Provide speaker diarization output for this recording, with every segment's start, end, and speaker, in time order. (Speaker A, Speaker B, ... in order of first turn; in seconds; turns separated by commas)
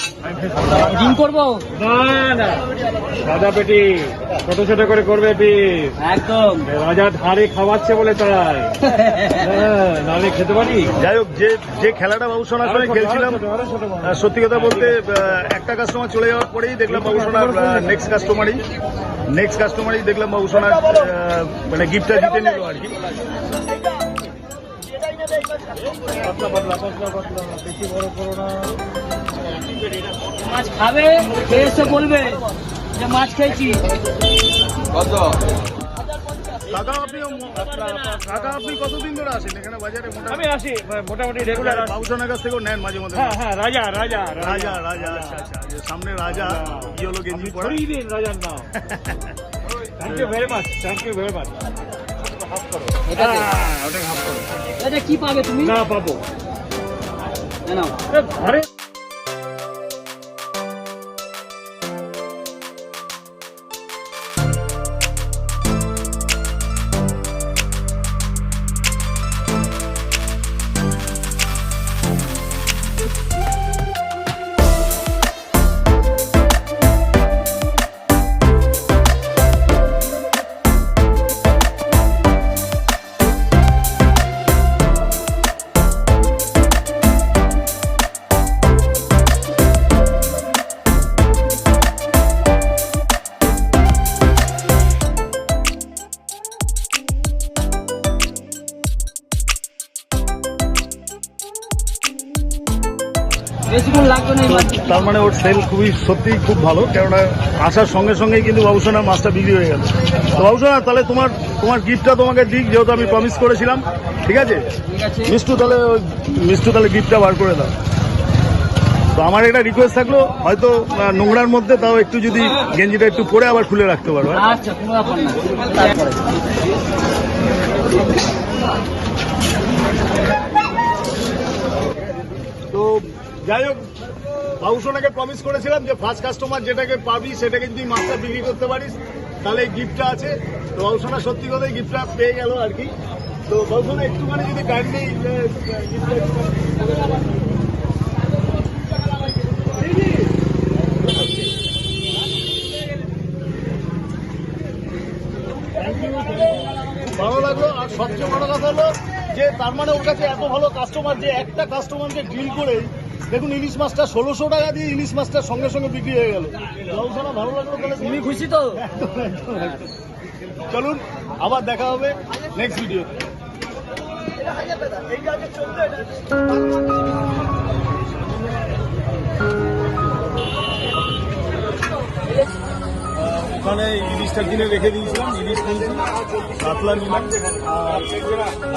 Speaker A: 0.2-0.8, Speaker B: 0.7-1.8, Speaker A: 1.8-6.0, Speaker B: 5.9-6.7, Speaker A: 6.7-10.9, Speaker B: 8.8-9.7, Speaker C: 10.9-13.4, Speaker A: 12.7-14.1, Speaker C: 14.0-18.6, Speaker A: 17.0-17.8, Speaker C: 19.3-23.0, Speaker A: 26.1-28.8, Speaker B: 30.3-33.9, Speaker C: 36.7-40.5, Speaker B: 37.3-38.5, Speaker A: 40.4-41.8, Speaker C: 41.5-43.4, Speaker A: 43.4-44.5, Speaker C: 44.4-47.8, Speaker A: 47.6-48.7, Speaker C: 48.7-49.2, Speaker A: 50.0-51.6, Speaker A: 52.3-54.5, Speaker B: 53.0-53.8, Speaker B: 54.6-55.9, Speaker A: 55.8-56.2, Speaker B: 57.6-58.1, Speaker A: 58.2-58.7, Speaker B: 103.7-105.1, Speaker C: 104.5-114.7, Speaker B: 114.8-115.3, Speaker C: 115.2-117.7, Speaker C: 119.1-124.5, Speaker B: 124.3-126.3, Speaker C: 132.7-133.9, Speaker C: 134.6-142.9, Speaker C: 143.5-146.6, Speaker C: 157.0-169.8, Speaker B: 168.0-168.8, Speaker C: 170.7-173.1, Speaker C: 183.2-186.1, Speaker C: 186.6-188.2